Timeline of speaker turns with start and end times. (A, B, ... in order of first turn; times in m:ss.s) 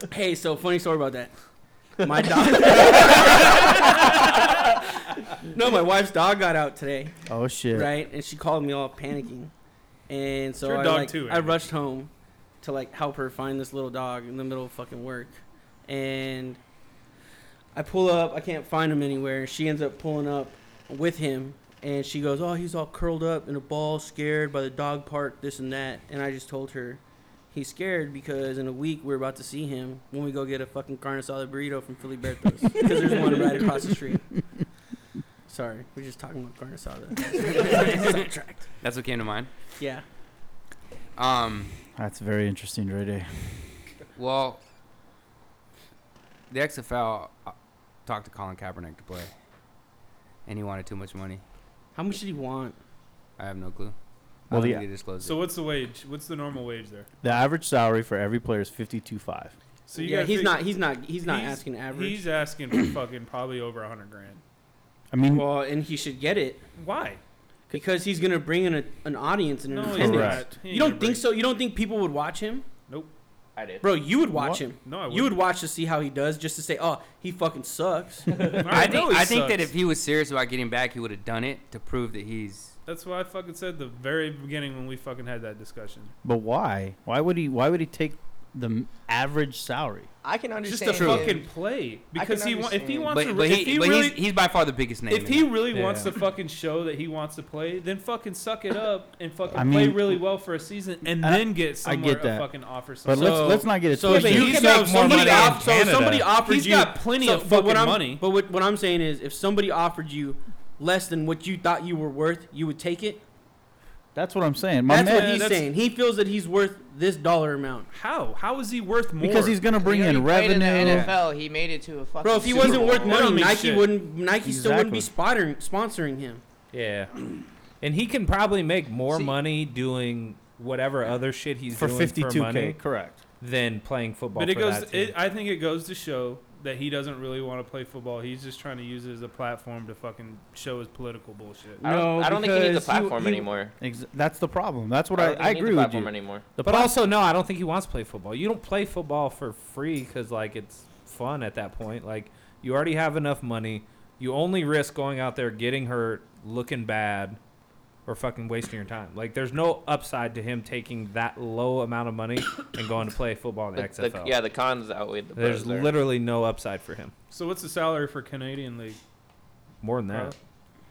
0:00.1-0:01.3 A
0:02.0-0:04.7 A
0:05.4-0:07.1 A
0:07.3-0:07.9 B
0:07.7-0:09.5 A
0:10.1-0:12.1 A
0:10.6-0:11.6 C
0:12.6-0:16.6 A
0:17.7-0:34.3 A
0:35.5-0:38.7 A
0:37.6-0:38.2 D
0:38.8-0:39.5 D
0:39.8-0:40.0 A
0:41.2-0:41.7 D
0:42.0-0:43.7 B
0:44.2-0:44.6 D
0:46.5-0:47.6 D
0:48.1-0:49.3 D
0:50.5-0:51.4 D
0:52.0-0:52.8 A
0:53.4-0:54.0 D
0:54.5-0:55.4 D
0:54.5-0:54.8 B
0:55.2-0:57.1 C
0:57.2-0:59.6 B
0:59.9-1:04.4 C
1:00.0-1:02.3 A
1:05.1-1:05.5 B
1:05.2-1:06.6 A
1:06.8-1:07.2 C
1:07.7-1:12.7 A
1:09.7-1:11.3 C
1:09.9-1:10.5 B
1:12.9-1:13.1 C
1:13.6-1:13.8 E
1:13.8-1:18.4 A
1:14.3-1:14.6 B
1:14.8-1:15.4 C
1:18.4-1:19.7 C
1:18.7-1:22.8 D
1:22.9-1:26.1 C
1:26.2-1:30.1 B
1:30.2-1:31.5 F
1:30.6-1:34.2 C
1:32.1-1:33.2 F
1:33.1-1:35.5 D
1:35.1-1:43.7 C
1:35.7-1:36.2 G
1:39.5-1:40.2 B
1:41.0-1:42.5 B
1:43.0-1:45.0 B
1:43.2-1:53.2 A
1:44.0-1:46.3 G
1:44.4-1:45.6 C
1:46.4-1:48.2 C
1:54.2-1:55.4 B
1:54.9-1:57.9 A
1:55.0-1:55.7 C
1:57.9-1:59.7 C
1:59.2-2:01.2 B
1:59.8-2:03.3 F
2:00.8-2:01.1 D
2:02.2-2:06.4 A
2:02.5-2:04.0 C
2:04.4-2:05.1 B
2:06.7-2:07.1 G
2:07.8-2:12.8 G
2:09.1-2:09.3 F
2:11.7-2:13.2 B
2:13.4-2:15.2 G
2:14.4-2:21.8 C
2:21.8-2:23.5 A
2:21.8-2:23.8 E
2:23.8-2:26.9 B
2:25.2-2:26.4 E
2:26.6-2:37.4 G
2:38.1-2:44.3 G
2:43.8-2:45.9 E
2:45.4-2:47.1 G
2:47.3-2:49.0 C
2:49.8-2:50.3 G
2:50.1-2:50.4 C